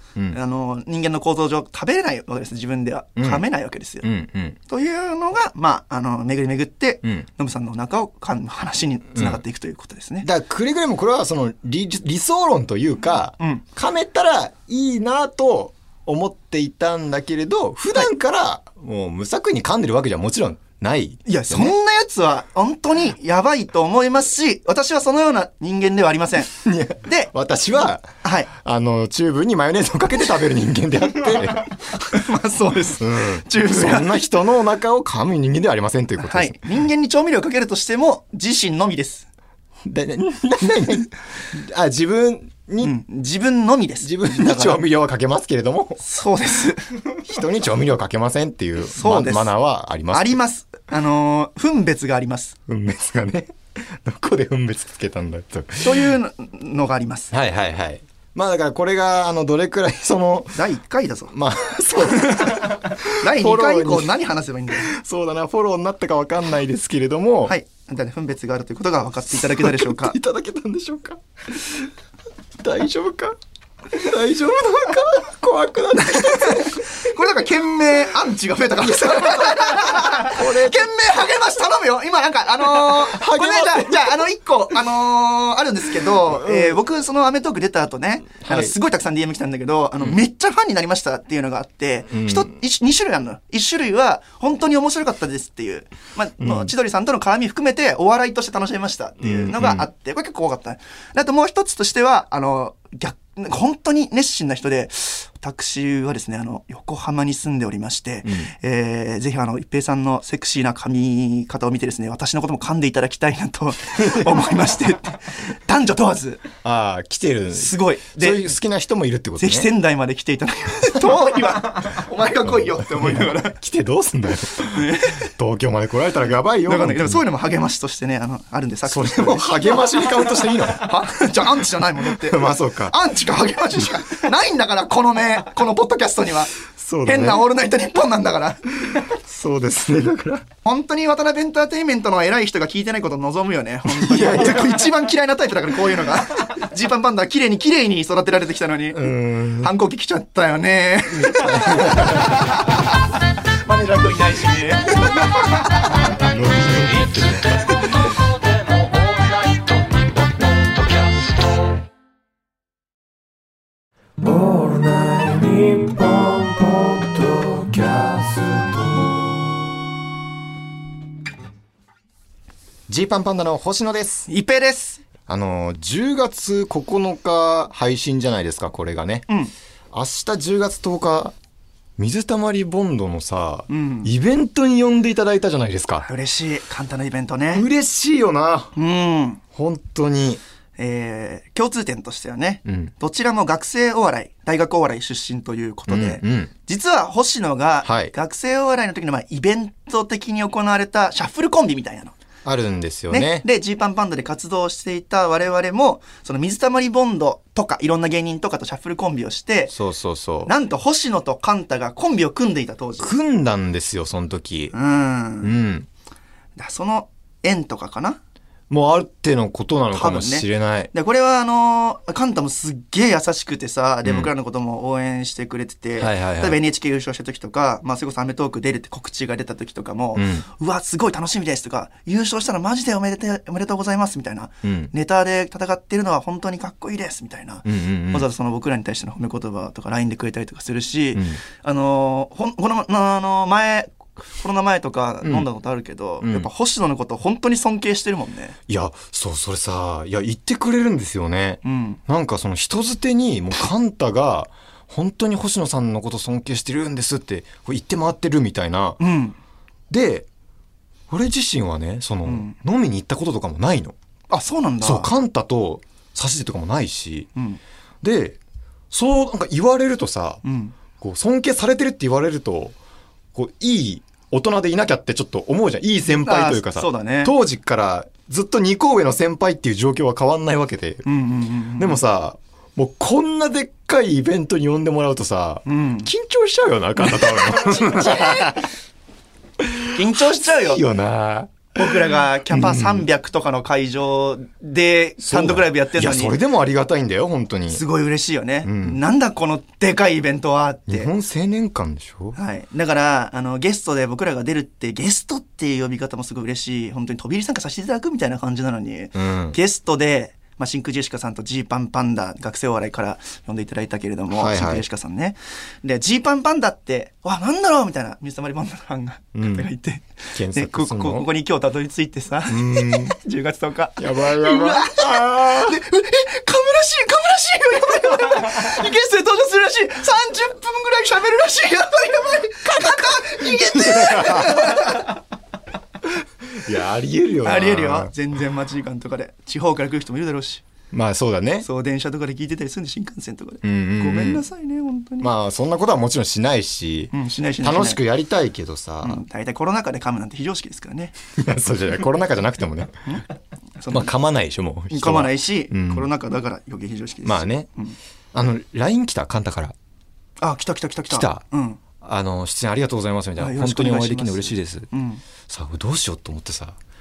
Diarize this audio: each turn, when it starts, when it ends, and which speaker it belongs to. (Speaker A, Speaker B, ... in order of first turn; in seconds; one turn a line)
Speaker A: 0.3-4.1
Speaker B: 3.2-3.4
Speaker B: 4.0-4.6
Speaker A: 4.7-10.3
Speaker B: 9.1-9.4
Speaker B: 10.2-21.7
Speaker A: 13.4-13.6
Speaker A: 21.2-27.3
Speaker B: 26.5-31.7
Speaker A: 28.2-28.5
Speaker A: 31.5-34.2
Speaker B: 33.0-36.6
Speaker A: 36.2-39.2
Speaker B: 39.8-43.0
Speaker A: 42.8-44.8
Speaker B: 44.0-46.0
Speaker A: 46.0-46.9
Speaker B: 47.1-50.4
Speaker A: 48.9-49.5
Speaker A: 50.1-52.5
Speaker B: 52.7-56.1
Speaker A: 55.8-57.3
Speaker B: 57.3-60.6
Speaker A: 60.5-61.3
Speaker B: 61.3-64.1
Speaker A: 62.0-64.9
Speaker B: 64.8-67.5
Speaker A: 67.5-70.2
Speaker B: 69.5-71.8
Speaker B: 72.6-73.4
Speaker B: 73.9-76.8
Speaker A: 76.0-116.5
Speaker B: 78.8-80.9
Speaker B: 82.9-84.2
Speaker B: 86.2-86.8
Speaker B: 88.4-88.7
Speaker B: 92.1-92.5
Speaker B: 96.4-96.7
Speaker B: 99.2-99.9
Speaker B: 114.0-114.3
Speaker B: 116.6-119.7
Speaker A: 117.5-118.4
Speaker A: 119.4-123.6
Speaker B: 122.5-127.2
Speaker A: 124.7-125.3
Speaker A: 126.6-136.5
Speaker B: 128.8-130.9
Speaker B: 132.2-132.9
Speaker B: 136.8-137.4
Speaker A: 137.0-138.7
Speaker B: 138.9-140.4
Speaker A: 140.6-153.0
Speaker B: 143.9-144.8
Speaker B: 148.9-149.7
Speaker B: 151.1-152.4
Speaker A: 153.6-155.7
Speaker B: 156.2-157.5
Speaker C: 156.6-161.8
Speaker C: 164.2-169.5
Speaker B: 172.9-174.3
Speaker A: 174.3-175.0
Speaker B: 175.3-179.2
Speaker B: 179.9-181.3
Speaker B: 182.0-186.1
Speaker A: 183.7-184.1
Speaker A: 186.0-187.7
Speaker B: 187.5-188.8
Speaker A: 188.8-189.4
Speaker B: 189.5-190.4
Speaker A: 190.8-202.1
Speaker B: 192.7-192.9
Speaker B: 195.9-196.5
Speaker B: 197.8-198.1
Speaker B: 202.4-203.4
Speaker A: 203.1-209.7
Speaker B: 209.7-210.5
Speaker A: 210.4-213.1
Speaker B: 213.0-214.7
Speaker A: 214.7-215.5
Speaker B: 215.4-215.9
Speaker A: 216.6-218.2
Speaker B: 218.7-220.9
Speaker A: 219.9-248.6
Speaker B: 224.0-224.3
Speaker B: 226.0-226.6
Speaker B: 230.2-230.4
Speaker B: 234.6-234.9
Speaker B: 237.7-238.3
Speaker B: 241.1-241.4
Speaker B: 246.2-246.5
Speaker B: 248.7-259.0
Speaker A: 251.6-252.0
Speaker A: 259.0-259.4
Speaker B: 259.9-260.3
Speaker B: 261.1-263.9
Speaker A: 262.2-262.5
Speaker A: 264.3-265.1
Speaker B: 264.8-267.3
Speaker B: 268.0-268.4
Speaker B: 268.9-270.4
Speaker A: 270.4-270.7
Speaker B: 271.0-272.7
Speaker B: 273.3-281.0
Speaker A: 276.1-277.3
Speaker A: 281.1-282.0
Speaker B: 281.8-288.7
Speaker A: 285.6-286.1
Speaker A: 287.1-288.6
Speaker B: 289.6-293.1
Speaker A: 289.9-290.8
Speaker A: 291.7-296.4
Speaker B: 295.2-297.8
Speaker A: 297.7-301.1
Speaker B: 298.6-299.0
Speaker B: 300.9-302.4
Speaker A: 302.4-335.1
Speaker B: 309.1-309.6
Speaker B: 314.3-314.8
Speaker B: 319.3-319.7
Speaker B: 320.3-321.3
Speaker B: 322.5-323.1
Speaker B: 324.0-325.8
Speaker B: 332.8-335.0
Speaker B: 336.5-338.1
Speaker A: 337.4-340.6
Speaker B: 340.9-341.7
Speaker A: 341.6-345.3
Speaker B: 343.6-344.4
Speaker B: 345.2-349.2
Speaker A: 347.1-348.0
Speaker A: 349.0-351.1
Speaker B: 351.4-353.1
Speaker A: 353.8-354.1
Speaker B: 353.9-356.1
Speaker A: 354.9-358.0
Speaker B: 357.2-357.7
Speaker B: 358.3-359.7
Speaker A: 360.4-361.8
Speaker B: 361.1-361.4
Speaker B: 362.0-364.9
Speaker A: 363.4-365.2
Speaker B: 365.5-366.8